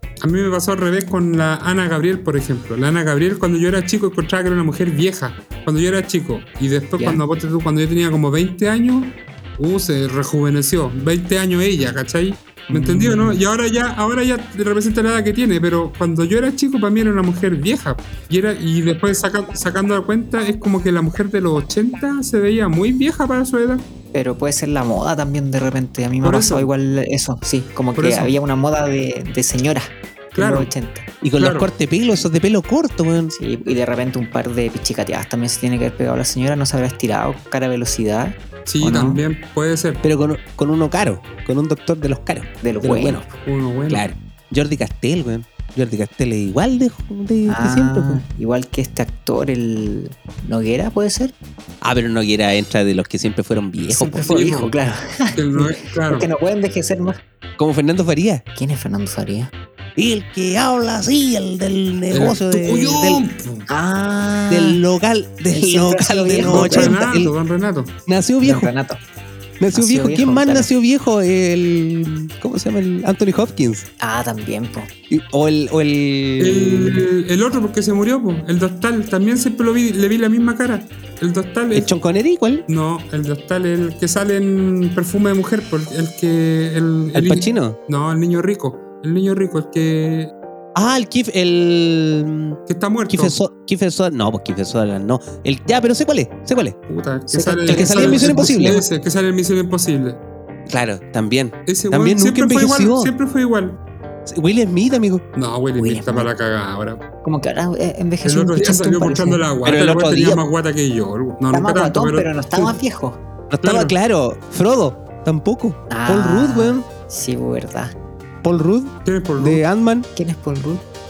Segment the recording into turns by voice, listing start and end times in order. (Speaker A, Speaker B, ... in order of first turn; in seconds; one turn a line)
Speaker A: 0.2-23.9
Speaker B: 7.0-7.2
Speaker B: 12.7-13.4
Speaker B: 24.1-31.1
Speaker A: 26.2-26.7
Speaker A: 27.9-28.4
Speaker A: 30.4-30.7
Speaker C: 31.2-33.3
Speaker A: 31.4-31.7
Speaker B: 33.3-39.2
Speaker A: 38.7-40.0
Speaker C: 40.0-43.2
Speaker B: 42.6-43.3
Speaker A: 43.4-44.0
Speaker C: 43.9-48.2
Speaker B: 47.5-51.3
Speaker C: 51.8-54.6
Speaker B: 53.9-57.2
Speaker A: 54.2-54.7
Speaker A: 55.3-56.3
Speaker C: 57.6-58.4
Speaker B: 58.5-59.5
Speaker C: 60.0-63.2
Speaker A: 62.1-63.6
Speaker B: 63.7-64.8
Speaker C: 64.5-67.3
Speaker B: 65.5-67.0
Speaker A: 66.5-67.9
Speaker C: 68.0-68.7
Speaker B: 68.4-69.0
Speaker C: 69.6-73.8
Speaker B: 69.7-70.7
Speaker B: 74.0-74.9
Speaker C: 75.1-77.1
Speaker A: 76.4-81.9
Speaker C: 81.7-82.6
Speaker A: 82.7-90.3
Speaker C: 87.1-87.8
Speaker C: 90.8-92.6
Speaker A: 92.7-93.3
Speaker C: 93.1-96.8
Speaker A: 96.9-100.2
Speaker B: 97.3-98.8
Speaker C: 97.7-98.8
Speaker C: 100.7-103.1
Speaker A: 101.7-103.8
Speaker C: 104.2-105.2
Speaker A: 105.3-107.0
Speaker B: 105.8-106.3
Speaker B: 107.2-109.4
Speaker A: 108.2-112.8
Speaker C: 109.6-110.4
Speaker B: 111.5-113.2
Speaker C: 113.5-116.8
Speaker A: 113.6-114.0
Speaker B: 115.9-117.9
Speaker C: 118.4-120.1
Speaker A: 119.0-119.6
Speaker B: 120.2-120.8